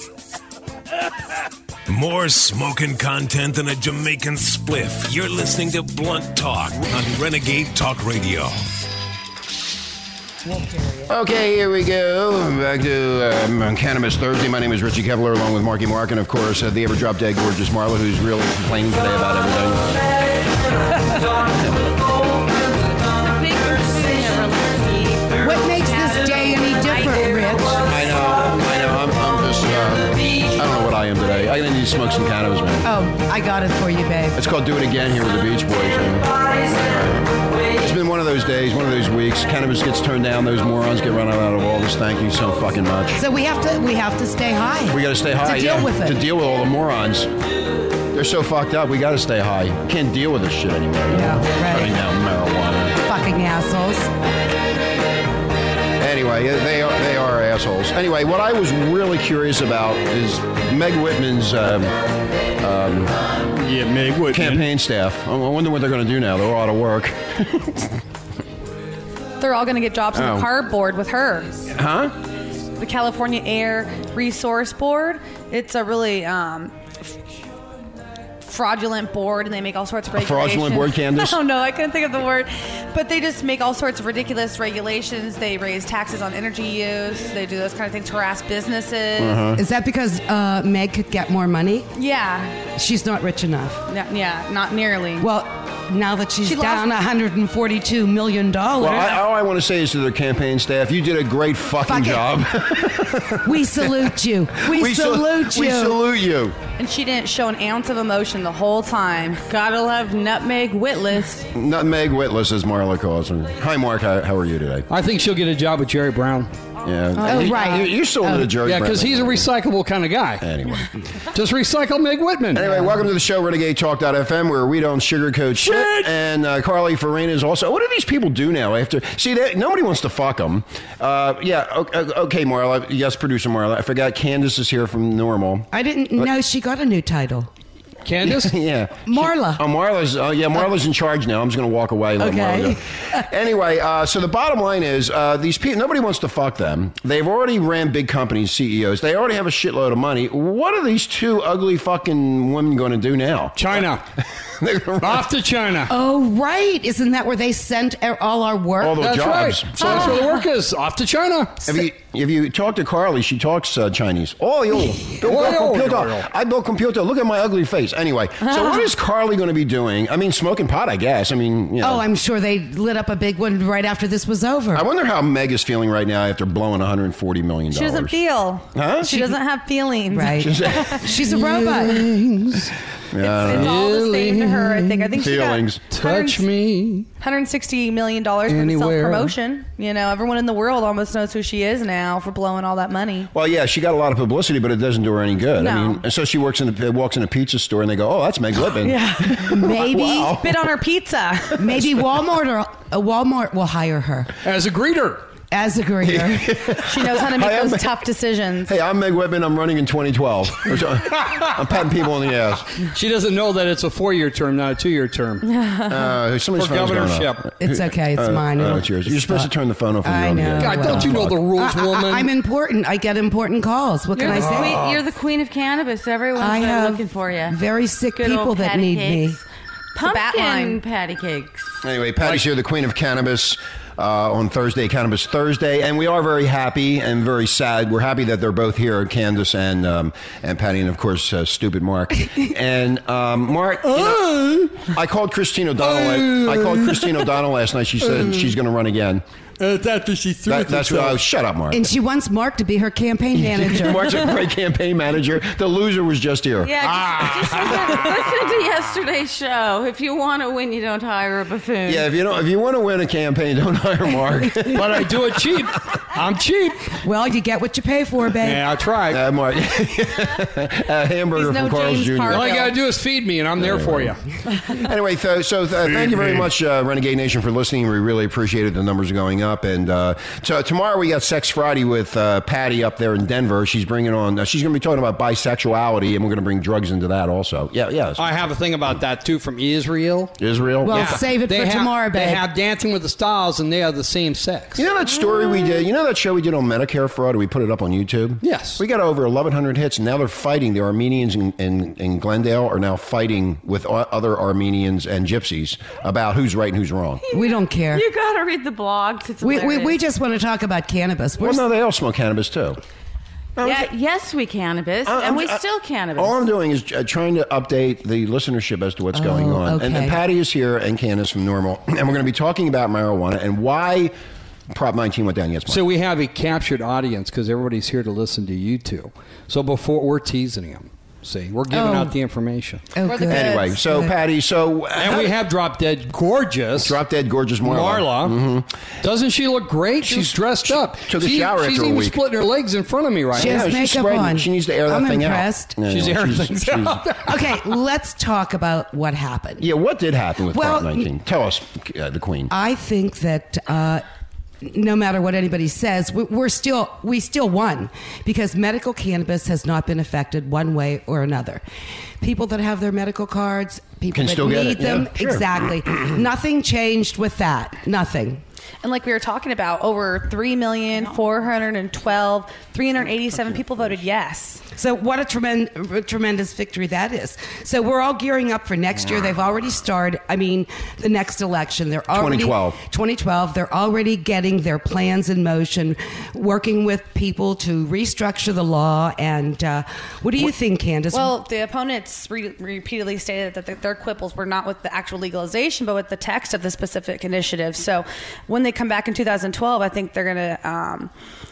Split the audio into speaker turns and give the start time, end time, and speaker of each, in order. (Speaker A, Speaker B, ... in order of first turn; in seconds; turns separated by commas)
Speaker A: 1.9-8.7, Speaker B: 10.4-11.1, Speaker C: 11.1-20.0, Speaker C: 21.5-21.7, Speaker D: 23.1-28.2, Speaker B: 25.4-27.8, Speaker C: 27.9-32.9, Speaker B: 32.8-34.4, Speaker C: 34.3-43.2, Speaker B: 43.1-46.2, Speaker C: 44.9-47.3, Speaker C: 48.1-52.9, Speaker B: 51.1-52.0, Speaker B: 53.0-54.1, Speaker C: 56.0-61.9, Speaker C: 62.6-63.2, Speaker E: 63.6-64.7, Speaker C: 64.3-68.0, Speaker F: 69.4-71.6, Speaker C: 70.1-70.5, Speaker C: 71.7-72.2, Speaker F: 72.8-77.1, Speaker F: 78.4-89.4, Speaker C: 80.1-81.4, Speaker C: 89.2-89.6, Speaker B: 89.5-91.9, Speaker F: 91.9-92.6, Speaker B: 92.7-93.8, Speaker F: 93.9-95.3, Speaker B: 95.2-99.2, Speaker F: 96.4-96.8, Speaker C: 98.8-104.1, Speaker B: 101.8-102.4, Speaker B: 103.4-106.0, Speaker C: 104.6-106.6, Speaker F: 106.8-109.4, Speaker D: 109.5-111.5, Speaker C: 111.5-114.9, Speaker E: 114.9-116.5, Speaker C: 116.8-119.5, Speaker B: 117.2-118.5, Speaker E: 118.6-120.5, Speaker C: 120.4-120.9, Speaker E: 121.3-122.7, Speaker C: 122.5-135.7, Speaker B: 122.6-123.1, Speaker E: 125.6-126.1, Speaker B: 135.7-137.5, Speaker E: 138.0-138.6, Speaker C: 138.2-153.8, Speaker B: 139.1-139.6, Speaker B: 142.2-143.2, Speaker E: 153.6-154.0, Speaker C: 154.4-155.3, Speaker E: 155.0-155.9, Speaker B: 155.9-159.1, Speaker C: 158.8-160.1, Speaker E: 159.0-161.7, Speaker F: 159.8-160.3, Speaker C: 161.7-172.0, Speaker E: 165.2-166.3, Speaker B: 171.8-174.8, Speaker C: 174.7-178.2, Speaker F: 177.7-181.0, Speaker C: 178.7-179.1, Speaker B: 179.1-179.4, Speaker B: 180.1-182.1, Speaker C: 180.4-181.1, Speaker E: 181.2-182.7, Speaker C: 183.1-183.7, Speaker F: 183.2-186.5, Speaker E: 183.4-185.2, Speaker C: 185.2-185.8, Speaker E: 185.9-187.1, Speaker F: 187.2-193.3, Speaker E: 188.5-189.3, Speaker C: 193.3-200.7, Speaker F: 195.5-196.0, Speaker F: 198.8-199.7, Speaker B: 199.3-200.4, Speaker F: 200.3-201.7, Speaker B: 201.6-204.3, Speaker E: 204.4-205.2, Speaker B: 205.5-206.6, Speaker C: 206.0-208.0, Speaker F: 206.8-208.7, Speaker C: 208.7-212.8, Speaker E: 212.8-215.5, Speaker C: 215.9-221.4, Speaker E: 216.6-217.5, Speaker B: 217.6-219.5, Speaker B: 220.0-224.8, Speaker E: 220.6-222.3, Speaker D: 224.2-227.6, Speaker E: 224.3-224.9, Speaker B: 226.3-229.4, Speaker D: 228.2-229.4, Speaker D: 229.9-231.7, Speaker F: 230.0-230.8, Speaker C: 231.8-249.2, Speaker E: 243.8-244.9, Speaker E: 245.8-247.4, Speaker E: 248.0-248.3, Speaker E: 249.6-251.2, Speaker C: 250.5-251.9, Speaker B: 251.7-254.3, Speaker C: 253.3-256.7, Speaker D: 256.6-262.1, Speaker E: 256.8-258.3, Speaker C: 261.9-265.2, Speaker E: 264.7-267.0, Speaker B: 267.0-268.6, Speaker E: 268.4-269.2, Speaker C: 269.1-272.5, Speaker F: 271.3-272.7, Speaker E: 272.3-274.2, Speaker C: 273.6-274.1, Speaker C: 274.7-288.4, Speaker E: 275.8-276.5, Speaker E: 288.2-294.8, Speaker C: 290.4-291.2, Speaker B: 290.8-292.4, Speaker C: 294.8-307.2, Speaker E: 298.4-298.8, Speaker D: 307.2-310.0, Speaker B: 307.3-308.0, Speaker B: 309.4-311.6, Speaker C: 311.4-312.8, Speaker C: 313.6-313.9, Speaker D: 313.6-316.4, Speaker C: 315.1-315.6, Speaker C: 316.2-324.1, Speaker B: 319.1-320.2, Speaker C: 324.7-325.8, Speaker E: 325.7-332.9, Speaker B: 331.7-332.1, Speaker B: 332.9-334.2, Speaker F: 333.0-333.8, Speaker C: 333.3-335.4, Speaker E: 334.9-337.0, Speaker C: 336.8-338.7, Speaker E: 337.6-338.4, Speaker E: 339.0-343.6, Speaker C: 340.0-342.2, Speaker B: 343.3-345.7, Speaker C: 343.3-347.1, Speaker E: 345.9-347.4, Speaker B: 347.2-349.7, Speaker C: 349.6-352.5, Speaker B: 350.5-351.1, Speaker B: 352.5-354.0, Speaker B: 354.6-361.6, Speaker B: 362.2-368.4, Speaker C: 364.1-366.2, Speaker F: 368.8-374.6, Speaker D: 370.9-371.4, Speaker B: 374.8-391.4, Speaker C: 382.1-382.8, Speaker F: 391.1-401.1